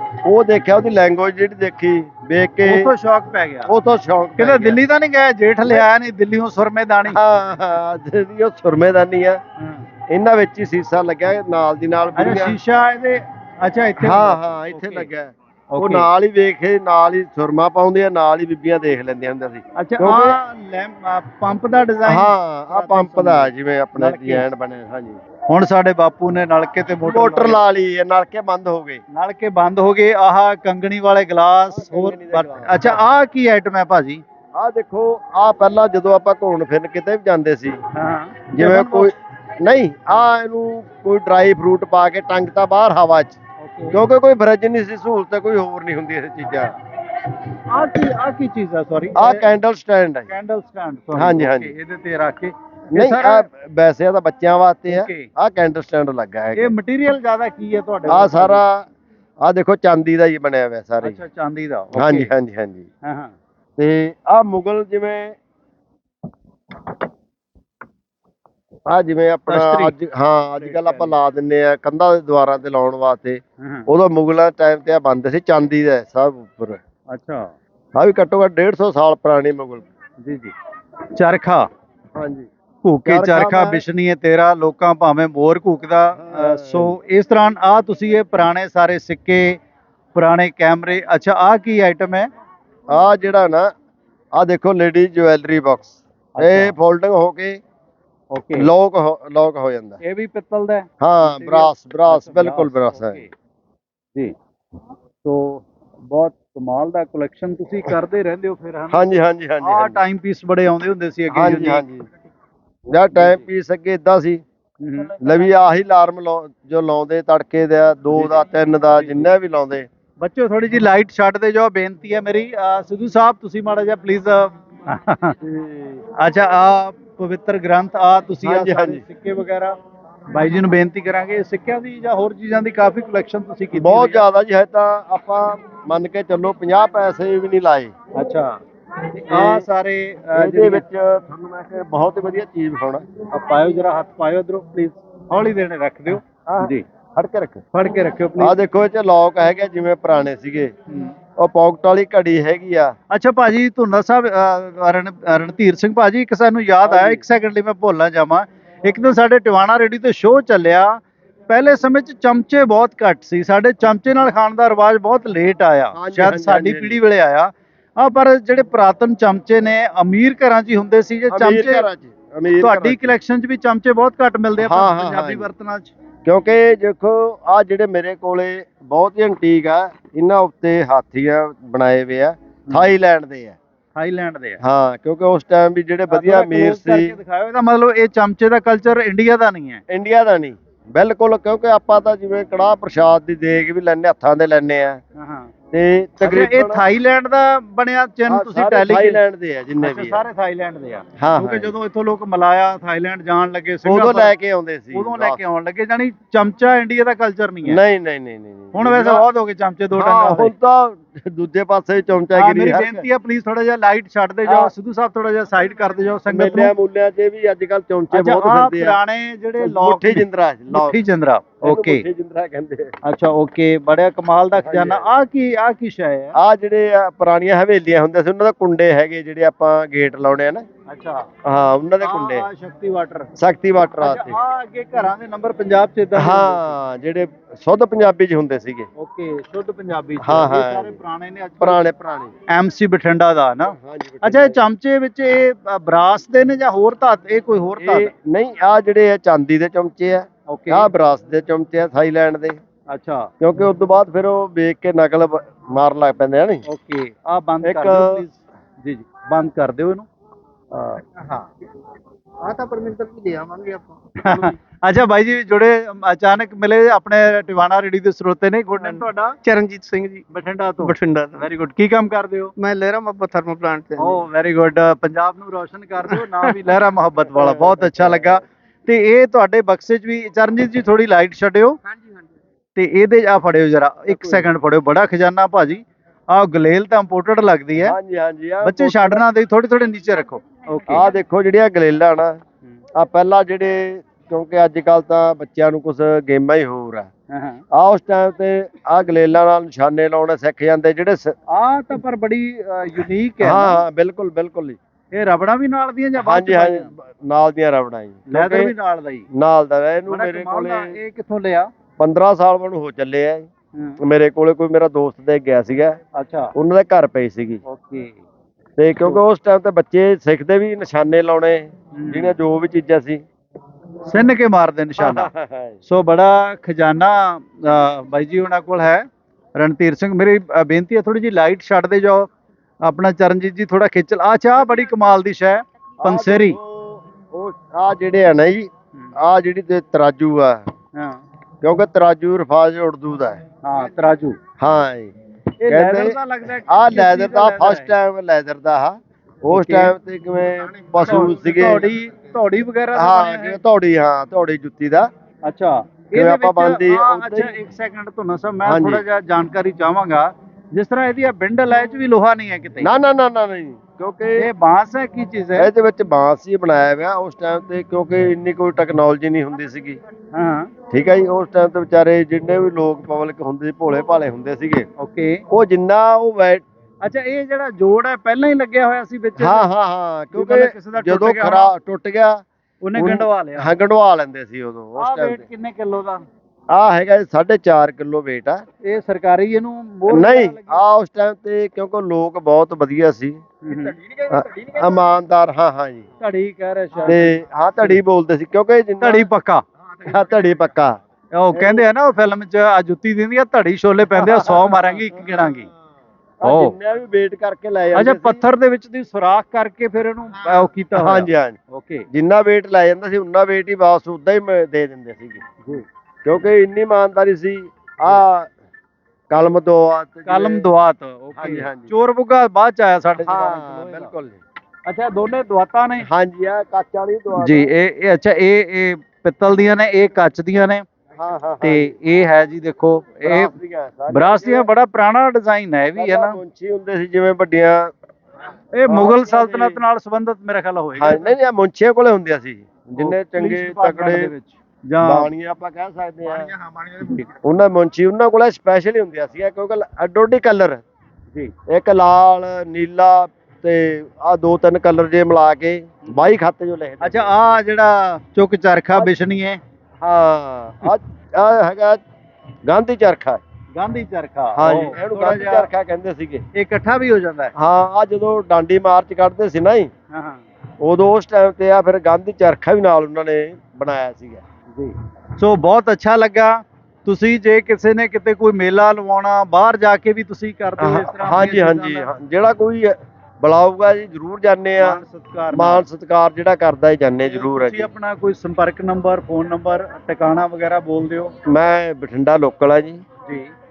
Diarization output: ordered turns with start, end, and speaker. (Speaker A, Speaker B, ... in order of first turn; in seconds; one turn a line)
Speaker A: 0.3-2.9
Speaker B: 2.6-3.7
Speaker A: 3.7-4.8
Speaker B: 4.4-7.2
Speaker A: 7.1-9.4
Speaker B: 9.6-9.8
Speaker A: 10.1-12.6
Speaker B: 12.2-15.1
Speaker A: 14.0-20.4
Speaker B: 15.7-16.1
Speaker B: 19.8-24.5
Speaker A: 22.1-25.2
Speaker B: 25.5-27.6
Speaker A: 27.0-29.0
Speaker B: 29.1-34.2
Speaker A: 31.7-33.0
Speaker A: 34.6-37.8
Speaker B: 37.9-39.1
Speaker A: 38.5-43.4
Speaker B: 43.6-44.0
Speaker A: 43.9-46.8
Speaker B: 47.7-49.5
Speaker A: 49.1-50.3
Speaker B: 50.3-53.5
Speaker A: 51.1-51.7
Speaker A: 52.9-56.7
Speaker B: 54.9-55.3
Speaker B: 56.6-58.6
Speaker A: 58.1-58.9
Speaker A: 59.4-61.2
Speaker B: 61.0-62.3
Speaker A: 62.0-62.9
Speaker B: 63.0-63.3
Speaker A: 63.8-65.4
Speaker A: 68.9-76.8
Speaker B: 69.5-69.9
Speaker B: 70.6-71.2
Speaker B: 73.6-73.9
Speaker B: 77.1-77.5
Speaker A: 78.0-79.9
Speaker B: 80.2-80.5
Speaker B: 81.2-81.7
Speaker A: 82.2-82.5
Speaker B: 82.8-89.6
Speaker A: 83.1-83.8
Speaker A: 86.2-87.0
Speaker B: 90.2-92.3
Speaker A: 92.9-93.7
Speaker A: 94.3-97.6
Speaker B: 96.3-96.8
Speaker B: 98.3-98.7
Speaker A: 98.6-100.0
Speaker B: 100.0-103.3
Speaker A: 101.0-103.2
Speaker B: 105.2-111.8
Speaker A: 108.9-110.0
Speaker A: 111.3-112.1
Speaker A: 112.9-114.4
Speaker B: 113.2-113.5
Speaker B: 114.8-115.1
Speaker A: 115.2-119.9
Speaker B: 118.1-119.3
Speaker B: 120.2-125.4
Speaker A: 125.4-126.0
Speaker B: 126.2-129.8
Speaker A: 128.4-129.0
Speaker B: 130.3-134.2
Speaker A: 133.8-137.9
Speaker B: 138.2-138.6
Speaker B: 139.1-140.8
Speaker A: 139.3-139.7
Speaker A: 140.3-143.0
Speaker B: 143.3-146.8
Speaker A: 146.5-147.6
Speaker B: 147.7-148.6
Speaker A: 148.4-150.7
Speaker B: 150.9-151.1
Speaker A: 151.4-152.9
Speaker B: 153.1-171.9
Speaker A: 156.8-157.2
Speaker A: 165.9-167.0
Speaker A: 171.3-173.2
Speaker B: 172.6-175.9
Speaker A: 174.6-175.5
Speaker A: 176.2-183.6
Speaker B: 183.9-184.6
Speaker A: 184.6-187.2
Speaker B: 186.1-189.8
Speaker A: 189.9-195.0
Speaker B: 195.2-195.5
Speaker A: 195.7-196.8
Speaker B: 196.2-199.2
Speaker A: 198.3-200.2
Speaker B: 199.8-204.3
Speaker A: 201.2-201.7
Speaker A: 203.8-205.4
Speaker B: 204.9-207.8
Speaker A: 207.7-209.2
Speaker B: 208.7-210.5
Speaker A: 210.0-213.1
Speaker B: 212.3-216.7
Speaker A: 214.5-214.7
Speaker A: 216.3-219.0
Speaker B: 218.1-222.0
Speaker A: 219.6-221.0
Speaker A: 221.6-222.9
Speaker B: 223.1-226.3
Speaker A: 224.6-225.1
Speaker A: 226.4-230.6
Speaker B: 230.9-231.3
Speaker A: 231.4-232.5
Speaker B: 232.0-233.3
Speaker A: 233.4-234.4
Speaker B: 234.0-236.8
Speaker A: 236.2-238.9
Speaker B: 239.0-241.8
Speaker A: 240.2-241.0
Speaker A: 241.6-242.3
Speaker B: 242.5-248.1
Speaker A: 243.7-244.7
Speaker A: 247.8-252.6
Speaker B: 250.5-250.9
Speaker B: 252.9-253.3
Speaker A: 253.4-256.6
Speaker B: 256.7-260.1
Speaker A: 257.6-258.2
Speaker A: 260.7-261.0
Speaker C: 261.2-261.4
Speaker C: 262.4-263.9
Speaker B: 264.2-269.4
Speaker C: 268.9-270.2
Speaker B: 270.3-272.5
Speaker C: 270.8-271.4
Speaker C: 272.6-274.1
Speaker B: 274.0-281.8
Speaker A: 277.4-278.4
Speaker B: 282.8-287.9
Speaker A: 284.1-284.5
Speaker A: 287.8-289.2
Speaker B: 288.6-291.1
Speaker A: 290.9-292.4
Speaker A: 293.0-297.1
Speaker B: 297.3-297.6
Speaker A: 297.7-301.4
Speaker B: 301.5-303.8
Speaker A: 303.4-304.8
Speaker B: 305.1-306.9
Speaker A: 306.2-308.7
Speaker B: 308.3-309.3
Speaker A: 309.3-311.0
Speaker B: 310.1-311.7
Speaker A: 312.0-313.5
Speaker A: 314.0-316.0
Speaker B: 316.1-316.5
Speaker A: 316.6-317.6
Speaker B: 317.7-318.2
Speaker A: 318.8-323.2
Speaker B: 321.9-322.4
Speaker B: 324.1-325.3
Speaker A: 325.0-325.8
Speaker B: 325.9-332.3
Speaker B: 332.8-336.6
Speaker A: 336.0-340.6
Speaker B: 341.0-341.2
Speaker A: 341.6-343.4
Speaker B: 343.6-344.4
Speaker A: 344.6-345.1
Speaker B: 345.6-347.9
Speaker A: 345.7-351.9
Speaker B: 349.5-349.9
Speaker B: 351.0-353.6
Speaker A: 352.9-355.1
Speaker B: 355.4-362.9
Speaker A: 356.1-357.6
Speaker A: 358.6-359.0
Speaker A: 362.8-364.5
Speaker B: 364.4-365.7
Speaker A: 365.6-370.0
Speaker B: 370.3-370.7
Speaker A: 370.9-374.9
Speaker B: 375.0-375.4
Speaker A: 375.5-376.6
Speaker B: 377.0-379.7
Speaker A: 379.4-382.4
Speaker B: 380.3-381.7
Speaker B: 382.8-383.7
Speaker A: 383.0-385.4
Speaker B: 385.0-386.2
Speaker A: 386.7-388.6
Speaker B: 388.8-390.8
Speaker A: 390.1-393.4
Speaker B: 393.6-394.0
Speaker C: 393.8-394.8
Speaker A: 394.3-396.1
Speaker B: 396.2-397.3
Speaker A: 397.1-399.3
Speaker B: 399.0-399.6
Speaker A: 400.0-400.9
Speaker B: 401.3-405.7
Speaker A: 401.5-401.8
Speaker A: 404.2-404.8
Speaker B: 406.4-406.8
Speaker A: 406.4-408.4
Speaker B: 407.9-412.1
Speaker A: 410.9-411.6
Speaker A: 412.1-415.4
Speaker A: 416.3-418.5
Speaker A: 419.3-420.7
Speaker B: 420.3-424.1
Speaker A: 421.4-421.9
Speaker A: 423.2-424.4
Speaker B: 424.9-426.1
Speaker A: 426.0-427.7
Speaker B: 427.4-430.8
Speaker A: 431.2-431.9
Speaker B: 431.6-433.5
Speaker A: 433.2-434.7
Speaker B: 434.1-436.4
Speaker A: 436.0-437.9
Speaker B: 438.7-441.4
Speaker A: 438.9-439.8
Speaker A: 441.0-444.3
Speaker B: 443.0-445.3
Speaker A: 445.0-446.5
Speaker C: 446.4-447.2
Speaker A: 447.4-450.8
Speaker A: 451.7-457.5
Speaker B: 457.0-459.6
Speaker A: 460.0-462.0
Speaker A: 462.7-463.4
Speaker B: 463.8-465.7
Speaker A: 464.6-466.4
Speaker B: 466.6-467.5
Speaker A: 467.6-469.9
Speaker B: 470.1-470.4
Speaker A: 470.8-474.4
Speaker B: 474.7-482.1
Speaker A: 480.8-485.0
Speaker B: 484.8-485.9
Speaker A: 485.5-487.9
Speaker B: 487.2-491.3
Speaker A: 491.5-493.0
Speaker B: 493.3-493.5